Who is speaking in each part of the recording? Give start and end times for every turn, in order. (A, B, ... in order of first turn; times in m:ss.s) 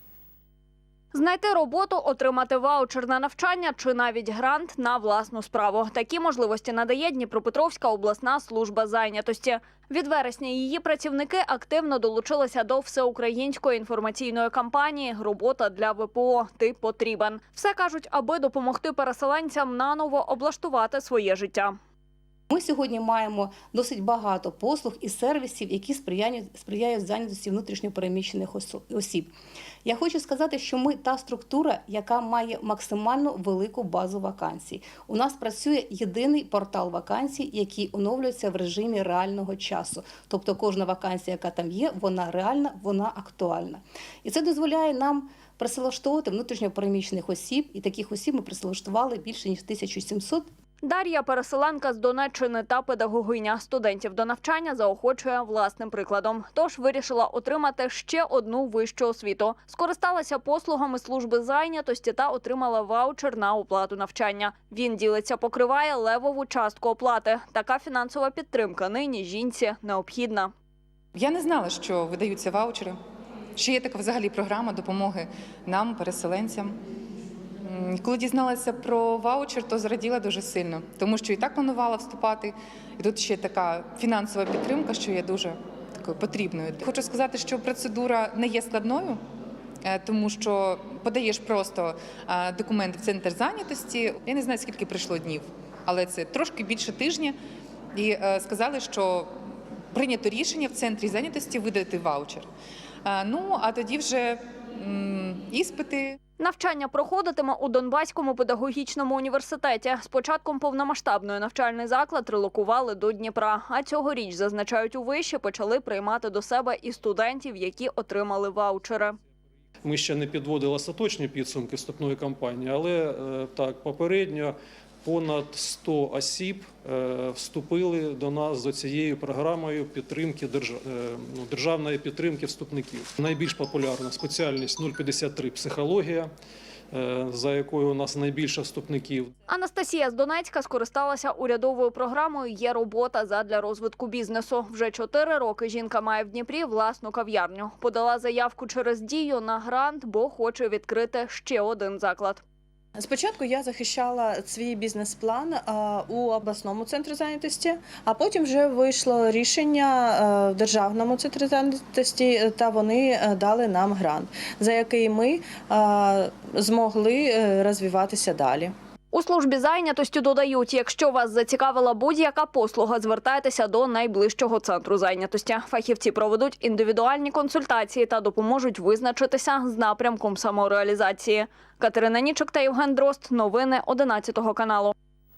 0:01.1-0:21.8 A
0:22.5-0:29.3 B
0:29.8-0:50.5 B
0:50.8-1:10.5 A
1:11.1-1:13.0 C
1:13.6-1:16.8 C
1:17.6-1:29.2 C
1:29.8-1:37.3 C
1:37.9-1:39.3 C
1:39.9-1:42.5 C
1:43.0-1:46.2 C
1:46.4-1:59.2 A
1:59.8-2:16.3 D
2:16.9-2:19.3 D
2:19.5-2:32.4 A
2:33.0-2:48.7 E
2:49.1-3:04.9 A